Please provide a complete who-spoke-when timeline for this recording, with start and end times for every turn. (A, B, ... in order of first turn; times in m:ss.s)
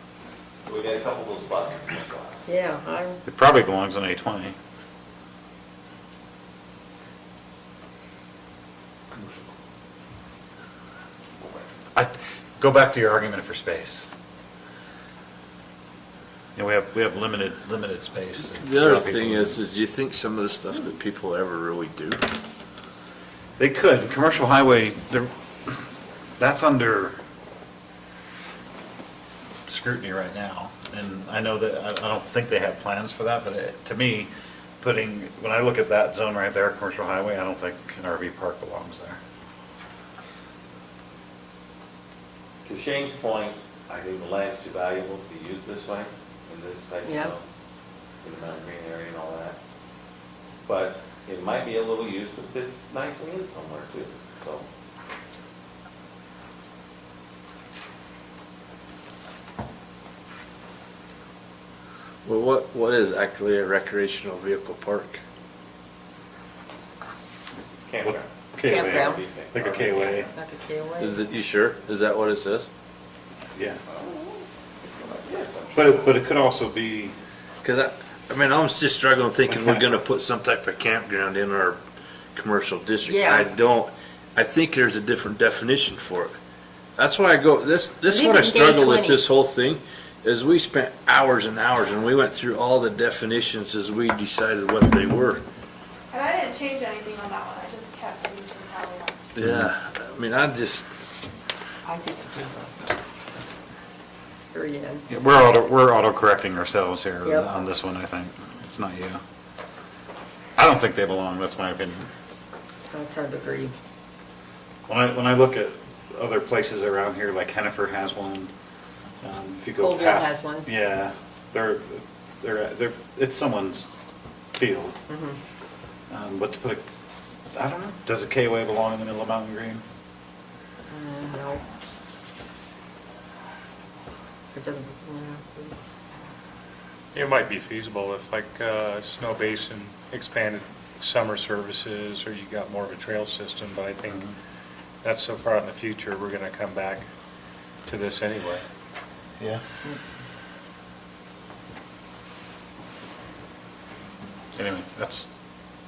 0:00.6-0:02.4 A
0:02.5-0:03.2 B
0:03.2-0:04.5 C
0:09.1-0:09.5 A
0:11.4-0:11.7 A
0:12.0-0:14.0 C
0:16.6-0:19.6 C
0:18.5-0:22.2 D
0:23.6-0:25.8 C
0:26.4-0:27.1 C
0:29.7-0:39.2 C
0:42.6-0:47.5 A
0:47.0-0:47.3 B
0:48.2-0:49.6 A
0:50.6-0:54.7 A
1:02.2-1:05.2 D
1:07.7-1:10.3 A
1:08.0-1:10.3 C
1:08.6-1:09.2 B
1:10.3-1:11.2 B
1:11.0-1:12.7 D
1:13.6-1:13.8 C
1:13.9-1:14.4 A
1:14.9-1:16.1 A
1:15.7-1:17.2 C
1:17.6-1:21.8 D
1:19.5-1:19.8 C
1:22.3-1:26.3 D
1:23.0-1:23.5 B
1:27.0-1:35.4 D
1:28.1-1:29.2 B
1:36.1-1:39.2 E
1:39.3-1:40.8 D
1:41.9-1:43.0 B
1:44.5-1:45.0 B
1:45.1-1:49.2 C
1:47.2-1:47.6 B
1:50.6-1:52.1 C
1:52.9-1:53.7 B
1:54.9-1:58.5 C
1:59.2-2:03.9 C
1:59.8-2:00.7 B
2:04.5-2:05.0 C
2:05.1-2:05.4 B
2:06.1-2:06.9 C
2:07.5-2:09.8 C
2:10.9-2:11.6 B
2:14.5-2:15.8 B
2:17.1-2:24.2 F
2:25.0-2:27.0 F
2:27.9-2:28.6 F
2:34.6-2:35.3 C